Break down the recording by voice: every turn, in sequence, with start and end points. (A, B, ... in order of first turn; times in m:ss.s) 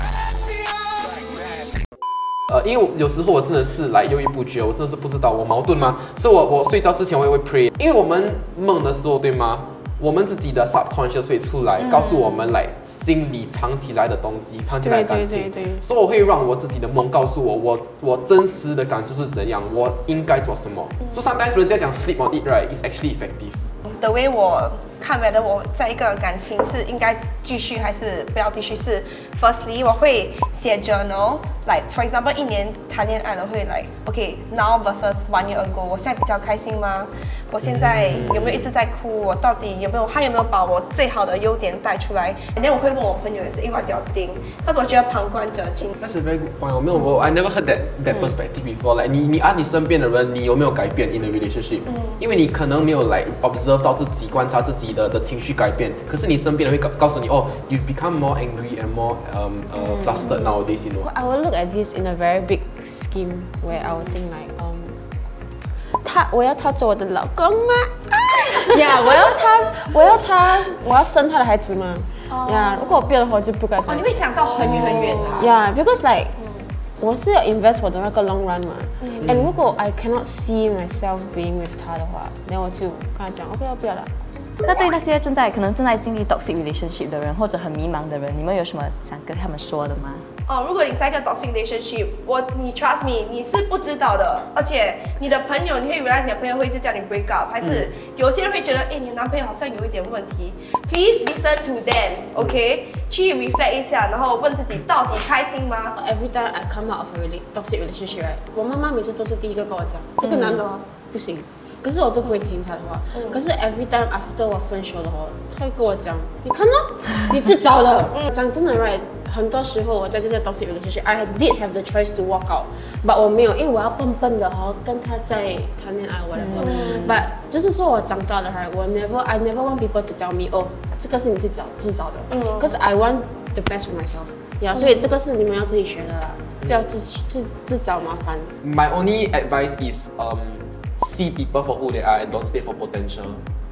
0:02.5-0:23.7 A
0:14.8-0:15.8 B
0:23.8-0:45.9 C
0:38.1-0:38.6 A
0:46.0-1:01.1 A
1:01.0-1:05.0 B
1:06.0-1:08.0 B
1:08.6-1:14.2 B
1:12.3-1:13.0 C
1:13.8-1:15.6 C
1:14.6-1:15.2 A
1:15.4-1:16.3 B
1:17.0-1:24.1 B
1:24.6-1:30.3 D
1:30.5-1:46.0 C
1:46.0-2:18.5 B
2:18.6-2:23.4 A